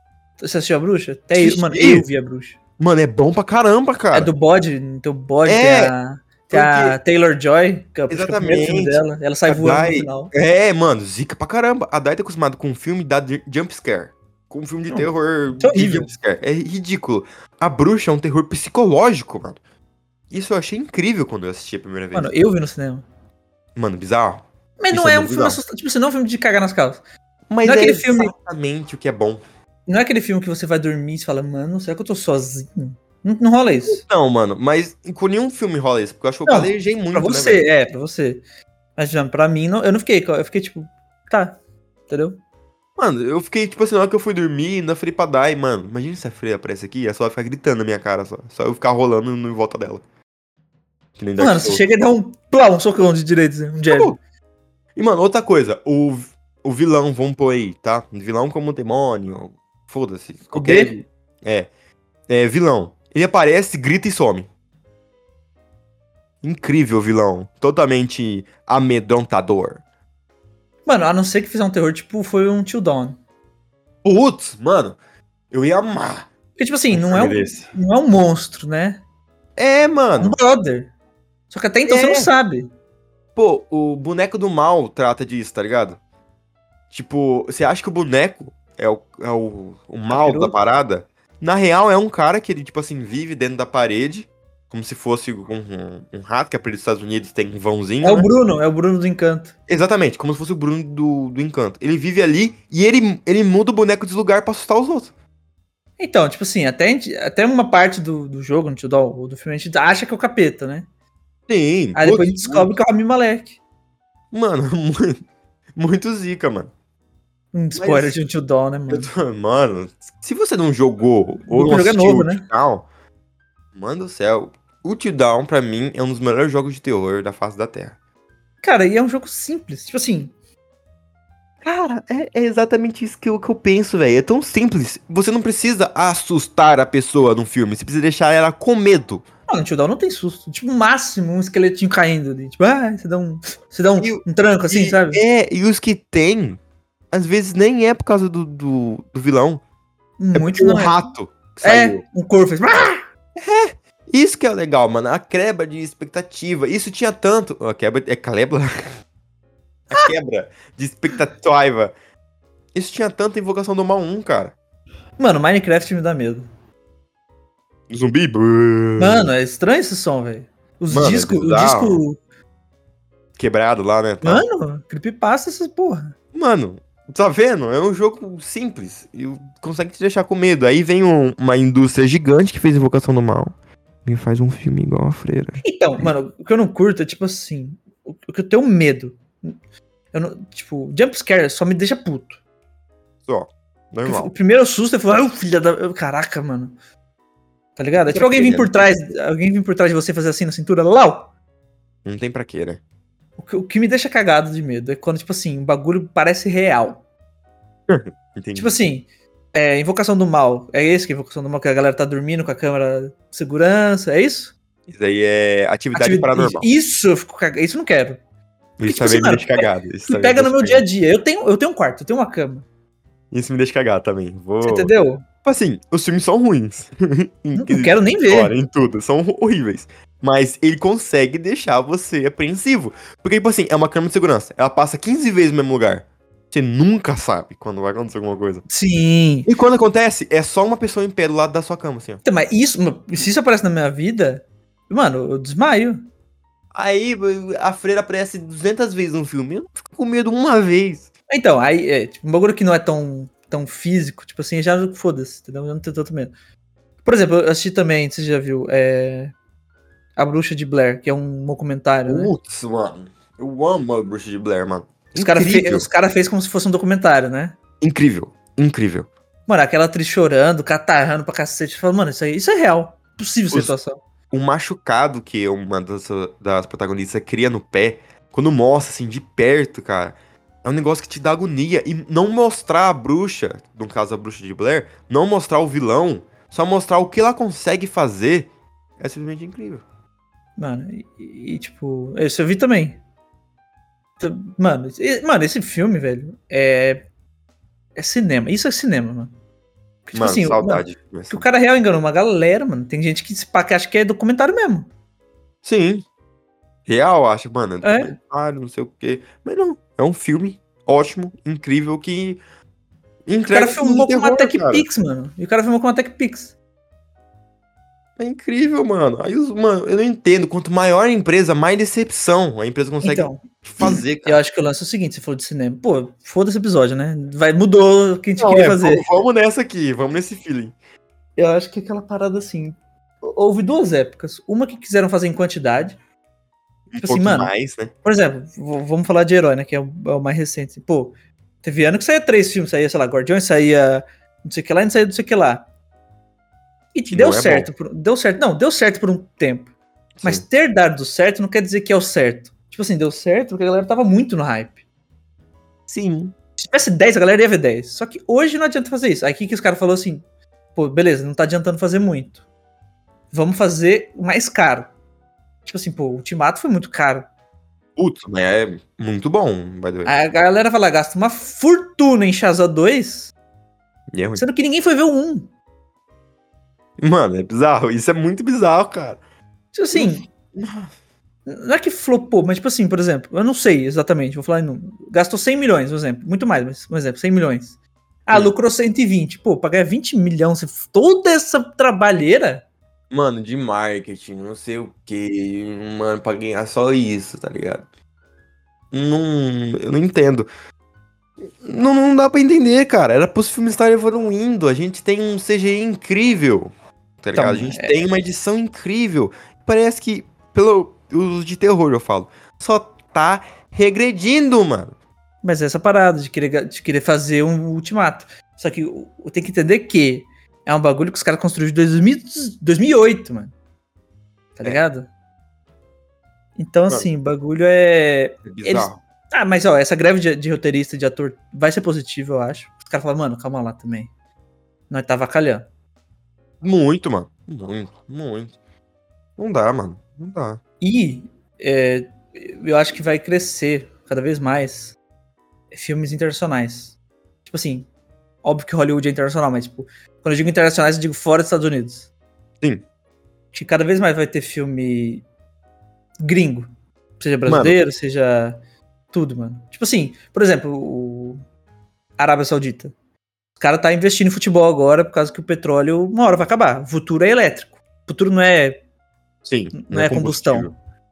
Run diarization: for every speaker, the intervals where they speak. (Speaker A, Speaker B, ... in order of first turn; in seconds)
Speaker A: 0.4-2.6, 4.1-10.3, 14.9-16.1, 22.1-23.0, 24.8-27.0, 27.6-28.3, 29.9-34.0, 36.5-38.4, 39.0-42.4, 51.4-54.1, 60.5-60.9, 70.8-73.2, 76.6-79.0, 80.2-80.9, 81.5-82.7, 90.1-90.5, 98.0-99.5, 106.0-110.8, 111.9-113.6, 117.5-119.1, 121.5-122.4, 128.6-130.3, 139.5-145.2, 150.2-151.0, 151.6-153.0, 165.2-166.5, 169.0-172.2, 174.2-176.1, 185.6-189.5, 190.1-192.4, 194.0-196.7, 197.8-201.3, 203.4-207.0, 208.5-214.5, 215.9-218.2, 218.8-222.7, 224.6-225.2, 227.5-228.5, 238.7-239.5, 242.2-246.1, 251.3-256.3, 257.0-259.3, 260.2-262.3, 265.1-267.6, 269.5-274.0, 290.6-293.0, 294.2-297.0, 297.9-299.3, 300.1-304.9, 307.8-308.1, 313.5-316.5, 323.0-329.1, 331.4-336.0, 337.0-337.5, 338.0-345.6, 346.9-354.8, 356.6-360.2, 360.7-362.4, 363.3-364.9, 365.6-367.3, 370.0-373.3, 374.4-375.5, 379.7-380.2, 381.4-392.6, 407.3-407.9, 415.4-423.5, 424.6-425.1, 426.6-434.1, 434.9-435.7, 440.8-445.0, 445.7-447.9, 448.4-452.1, 453.5-455.2, 456.2-458.6, 459.1-461.4, 462.2-462.9, 463.6-468.8, 469.7-470.7
Speaker B: 1.3-2.0, 2.8-4.3, 5.5-5.9, 6.5-7.0, 8.1-19.6, 20.3-22.3, 23.8-25.6, 27.5-29.4, 33.9-37.6, 43.0-50.0, 51.2-51.8, 53.9-54.2, 55.0-61.7, 62.3-64.5, 66.4-69.8, 74.0-75.0, 75.5-76.3, 76.9-77.7, 79.5-80.4, 81.9-82.3, 83.3-86.0, 86.9-98.3, 99.7-105.1, 111.5-112.7, 114.3-115.2, 115.8-116.7, 117.8-118.2, 118.9-122.8, 123.7-128.0, 131.6-139.2, 144.0-146.6, 147.1-149.6, 150.3-152.0, 153.4-158.7, 159.9-161.9, 162.7-164.5, 167.9-169.3, 170.9-172.0, 173.4-174.4, 176.3-183.5, 184.0-186.1, 193.2-194.3, 198.1-198.9, 202.0-202.8, 207.9-208.8, 214.9-216.7, 218.8-220.8, 223.3-224.9, 225.4-238.6, 239.4-242.2, 246.7-251.1, 262.1-265.9, 267.8-269.1, 274.3-289.8, 300.1-301.4, 305.6-306.0, 306.9-312.4, 313.2-314.9, 318.2-324.4, 328.4-330.7, 336.9-337.9, 347.1-347.7, 350.2-350.4, 355.9-356.3, 368.0-370.1, 374.1-374.4, 377.0-379.2, 379.9-380.9, 393.1-397.8, 398.9-400.5, 401.4-414.9, 428.4-429.0, 436.6-438.5, 439.4-440.6, 457.5-457.8, 469.4-470.7